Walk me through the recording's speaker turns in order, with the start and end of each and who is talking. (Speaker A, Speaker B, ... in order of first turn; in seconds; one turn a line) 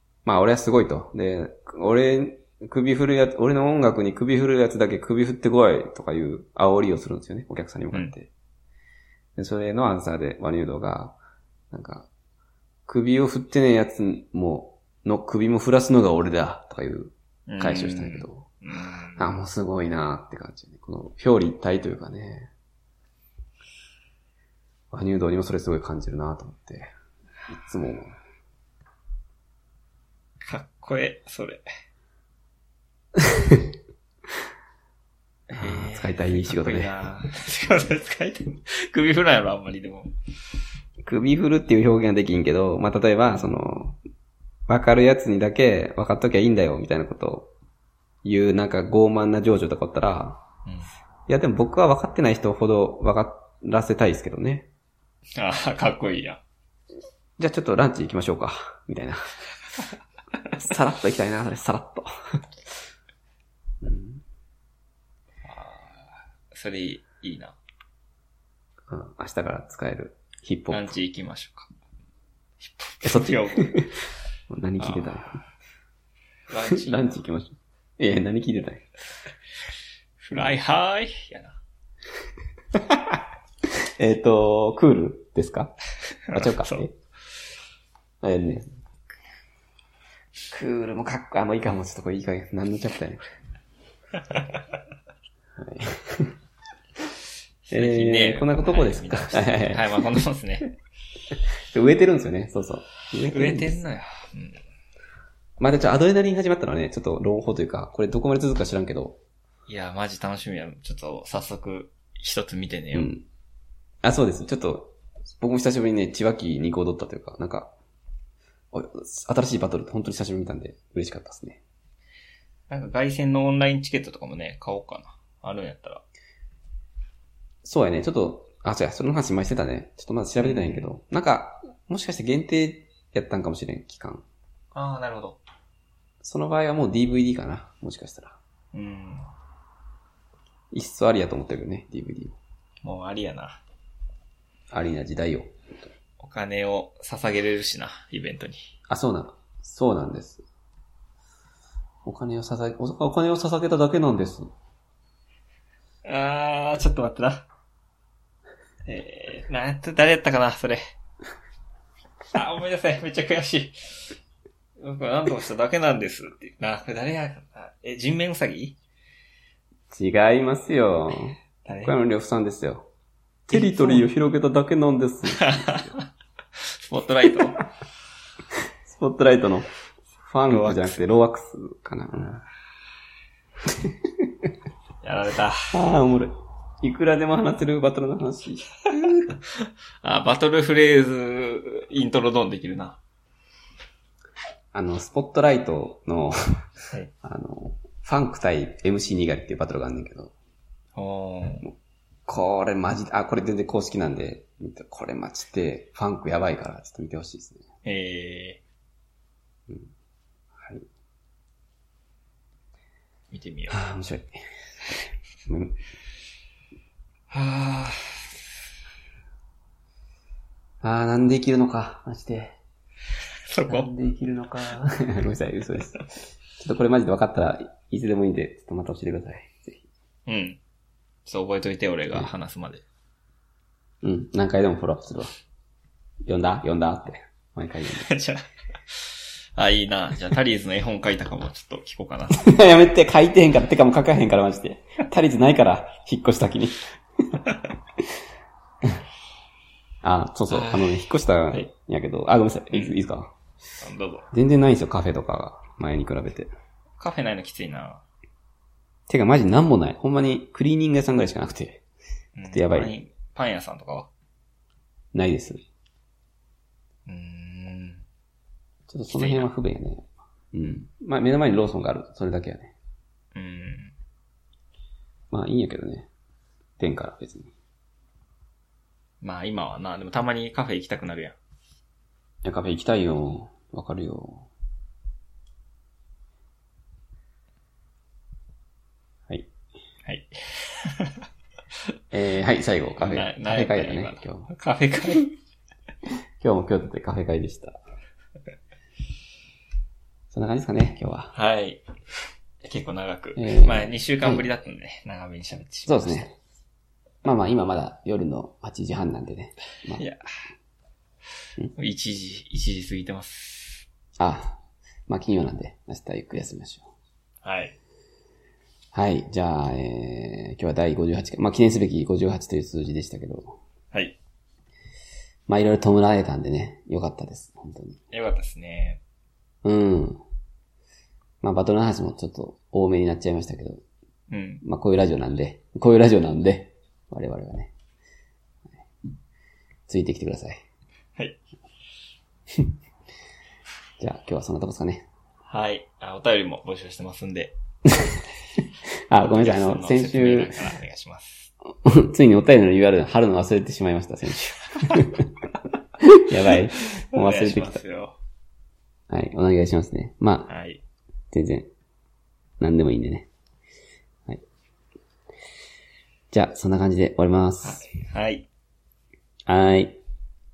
Speaker A: 0.2-8.3
Speaker A: 9.3-11.2
Speaker A: 11.7-12.1
Speaker A: 12.9-18.5
Speaker B: 17.5-19.3
Speaker A: 19.2-22.5
Speaker A: 24.9-26.9
Speaker A: 27.5-28.1
Speaker B: 30.4-31.6
Speaker A: 33.1-33.7
Speaker B: 35.5-40.1
Speaker A: 35.6-36.9
Speaker A: 41.0-44.0
Speaker A: 44.7-47.5
Speaker A: 48.2-50.4
Speaker A: 51.3-54.7
Speaker B: 55.4-56.4
Speaker A: 57.4-59.3
Speaker A: 60.5-62.4
Speaker A: 63.8-64.2
Speaker B: 65.5-67.6
Speaker A: 68.9-70.9
Speaker B: 70.7-71.7
Speaker B: 72.6-73.8
Speaker A: 73.0-73.9
Speaker A: 74.5-75.4
Speaker B: 74.8-75.2
Speaker B: 76.5-77.2
Speaker A: 76.7-78.9
Speaker B: 80.2-81.6
Speaker A: 84.0-85.7
Speaker B: 86.3-86.8
Speaker A: 86.3-86.9
Speaker A: 88.2-88.8
Speaker A: 90.5-93.2
Speaker B: 94.3-94.6
Speaker A: 95.5-96.3
Speaker B: 97.7-100.7
Speaker A: 97.7-100.1
Speaker A: 101.3-103.8
Speaker B: 103.3-104.6
Speaker A: 105.6-109.2
Speaker B: 109.7-113.1
Speaker A: 112.9-113.2
Speaker A: 114.0-117.7
Speaker A: 118.7-121.6
Speaker B: 122.7-126.0
Speaker A: 127.6-134.2
Speaker B: 130.4-130.9
Speaker B: 134.7-135.4
Speaker A: 136.2-138.4
Speaker B: 138.7-139.3
Speaker A: 140.7-142.4
Speaker B: 142.8-143.6
Speaker A: 144.7-145.6
Speaker B: 146.2-148.7
Speaker A: 148.9-150.4
Speaker A: 152.0-154.5
Speaker B: 156.0-157.5
Speaker B: 158.8-160.8
Speaker B: 162.3-164.1
Speaker B: 164.8-168.8
Speaker A: 169.9-172.9
Speaker B: 171.6-171.9
Speaker A: 173.5-175.9
Speaker B: 173.5-174.1
Speaker B: 175.3-176.1
Speaker B: 176.6-177.6
Speaker A: 178.8-179.7
Speaker A: 180.2-182.4
Speaker B: 180.5-181.0
Speaker A: 183.7-184.4
Speaker B: 185.0-185.7
Speaker A: 185.7-189.3
Speaker B: 190.0-193.0
Speaker A: 194.7-196.3
Speaker A: 197.2-200.3
Speaker B: 200.9-201.7
Speaker A: 202.3-207.6
Speaker B: 207.8-208.6
Speaker A: 210.5-210.8
Speaker B: 213.3-213.8
Speaker A: 213.7-214.4
Speaker A: 215.5-215.8
Speaker B: 217.3-218.4
Speaker A: 220.8-222.6
Speaker B: 223.5-223.9
Speaker A: 223.7-229.9
Speaker B: 230.3-230.6
Speaker B: 231.2-232.8
Speaker A: 234.0-235.3
Speaker A: 236.3-238.1
Speaker B: 238.1-242.5
Speaker A: 242.4-246.9
Speaker A: 250.0-253.3
Speaker B: 250.5-251.0
Speaker B: 252.7-253.0
Speaker B: 253.8-254.3
Speaker A: 254.3-256.5
Speaker B: 257.0-258.0
Speaker A: 259.1-261.8
Speaker B: 262.4-264.1
Speaker A: 262.5-262.9
Speaker A: 265.1-265.6
Speaker B: 267.1-268.0
Speaker A: 268.9-272.7
Speaker B: 269.1-269.5
Speaker B: 273.3-273.9
Speaker A: 275.3-276.1
Speaker A: 276.8-277.5
Speaker B: 279.2-281.4
Speaker A: 282.4-284.5
Speaker B: 290.1-291.2
Speaker A: 292.1-294.5
Speaker B: 293.0-295.3
Speaker A: 296.4-297.8
Speaker A: 300.3-301.3
Speaker B: 301.3-301.8
Speaker B: 302.6-306.3
Speaker A: 303.4-304.4
Speaker A: 305.9-306.3
Speaker A: 307.2-310.0
Speaker B: 309.9-310.2
Speaker B: 311.7-313.9
Speaker A: 314.2-316.9
Speaker B: 317.4-317.7
Speaker A: 318.9-323.6
Speaker A: 325.5-328.0
Speaker B: 328.1-329.0
Speaker A: 329.6-330.2
Speaker A: 331.4-333.8
Speaker B: 334.3-334.6
Speaker A: 334.6-337.7
Speaker A: 339.9-340.6
Speaker A: 344.0-345.0
Speaker B: 345.5-347.5
Speaker A: 347.9-348.2
Speaker A: 349.1-350.6
Speaker B: 349.2-351.5
Speaker A: 351.8-355.3
Speaker A: 356.0-357.8
Speaker B: 357.1-358.2
Speaker A: 359.1-360.5
Speaker B: 360.5-360.8
Speaker A: 361.3-361.7
Speaker A: 362.6-363.3
Speaker A: 366.3-367.8
Speaker B: 367.6-368.4
Speaker A: 369.5-370.0